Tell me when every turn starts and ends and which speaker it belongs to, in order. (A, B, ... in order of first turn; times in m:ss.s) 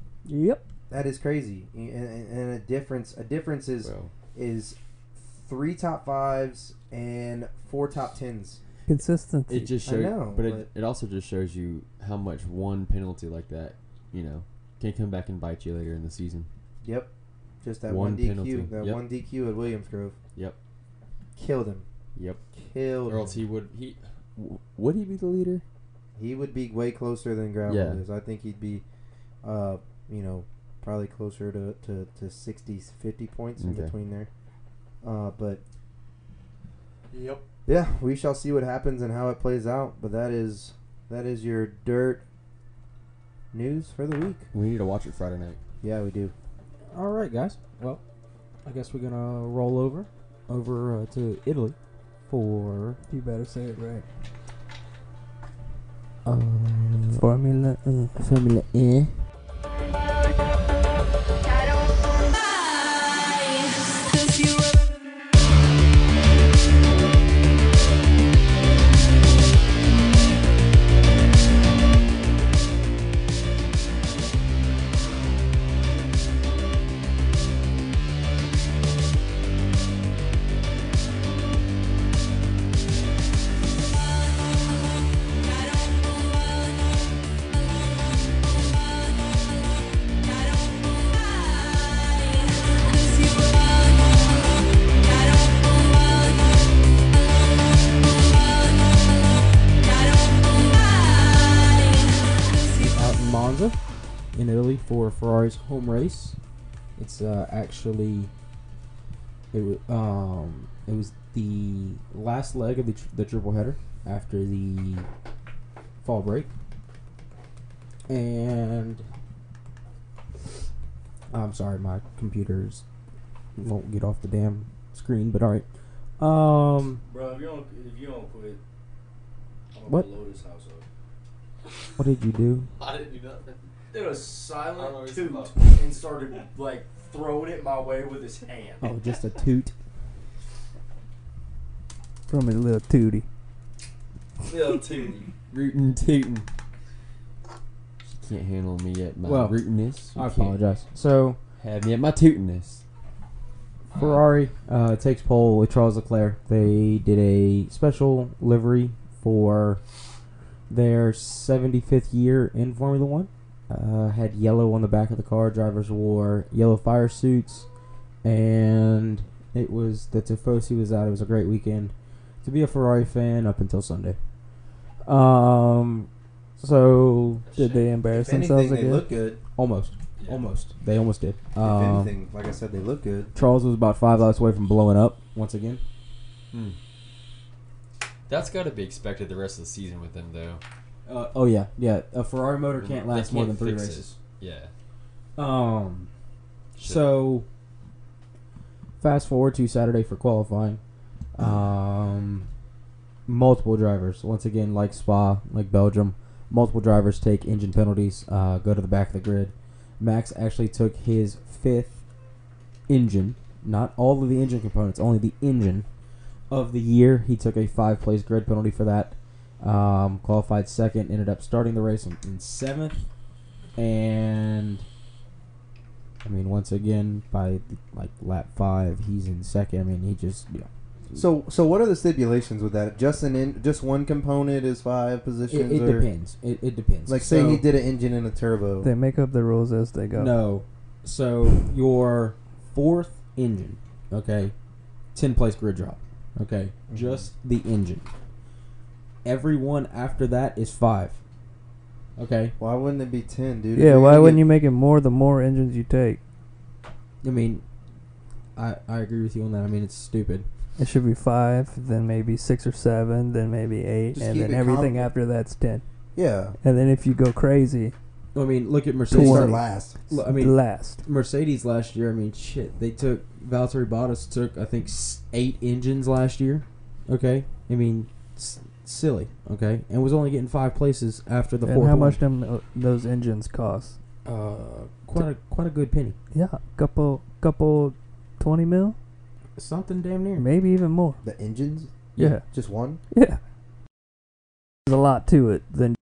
0:00.2-0:00.6 A
0:00.9-0:08.6 B
0:03.8-0:04.1 C
0:08.9-0:09.8 A
0:09.5-0:16.5 C
0:09.8-0:10.7 B
0:16.8-0:17.1 B
0:17.6-0:20.2 B
0:17.9-0:19.0 C
0:21.4-0:21.8 B
0:22.1-0:22.4 C
0:22.5-0:23.4 B
0:23.1-0:25.6 C
0:26.2-0:28.8 B
0:27.6-0:28.0 C
0:29.4-0:34.3 B
0:33.6-0:33.9 C
0:35.0-0:35.6 B
0:37.1-0:37.4 D
0:37.6-0:42.2 B
0:43.5-0:44.5 B
0:44.5-0:45.6 C
0:45.8-0:46.3 B
0:46.9-0:48.0 E
0:48.6-0:51.8 E
0:52.3-0:53.0 E
0:53.1-0:54.0 A
0:56.2-0:57.3 E
0:57.2-0:58.1 A
0:58.1-0:59.1 E
1:42.7-1:43.8 E
1:44.3-1:46.4 E
1:47.0-1:48.3 E
1:49.5-1:55.1 E
1:56.0-1:56.5 E
1:58.1-1:59.0 E
2:01.3-2:02.8 E
2:03.6-2:05.6 E
2:06.2-2:07.0 E
2:07.1-2:08.6 D
2:09.7-2:10.8 D
2:12.0-2:12.7 E
2:12.8-2:13.6 C
2:13.9-2:18.9 D
2:14.6-2:15.8 C
2:18.8-2:19.7 E
2:22.3-2:23.2 A
2:24.5-2:25.3 D
2:25.5-2:26.5 C
2:28.1-2:30.6 C
2:29.2-2:29.6 E
2:30.1-2:31.4 E
2:31.6-2:32.8 C
2:33.9-2:39.8 E
2:40.7-2:47.7 E
2:48.2-2:51.9 E
2:52.4-2:54.2 E
2:55.0-2:57.4 E
2:57.4-2:57.9 C
2:57.5-2:59.0 A
2:58.1-2:59.4 B
2:59.6-3:02.2 E
3:00.2-3:00.5 C
3:01.6-3:03.3 B
3:03.3-3:05.8 E
3:06.5-3:06.8 C
3:08.3-3:10.6 C
3:11.0-3:14.2 E
3:12.7-3:14.7 C
3:15.4-3:16.1 E
3:16.8-3:17.4 E
3:16.8-3:17.1 C
3:19.0-3:20.8 E
3:21.3-3:22.5 E
3:23.3-3:32.0 E
3:32.9-3:35.8 E
3:36.5-3:43.0 E
3:43.8-3:44.8 E
3:46.2-3:51.2 E
3:51.1-3:56.1 B
3:55.5-3:57.6 E
3:57.1-3:58.9 B
3:58.8-4:00.4 A
4:00.1-4:04.5 E
4:05.1-4:08.1 E
4:06.9-4:07.3 B
4:09.2-4:11.2 E
4:12.2-4:12.5 E
4:12.6-4:14.4 B
4:13.8-4:16.2 A
4:17.2-4:17.6 E
4:18.6-4:20.5 E
4:20.8-4:25.8 A
4:24.1-4:25.1 B
4:26.2-4:26.6 B
4:26.6-4:27.9 A
4:28.3-4:29.6 E
4:29.1-4:31.0 A
4:29.1-4:29.9 B
4:30.1-4:42.2 E
4:41.6-4:44.0 A
4:44.2-4:46.2 E
4:46.3-4:49.0 A
4:49.6-4:50.5 E
4:50.4-4:51.2 A
4:51.2-4:53.0 B
4:52.2-4:52.5 A
4:53.1-4:53.4 A
4:54.8-4:56.0 A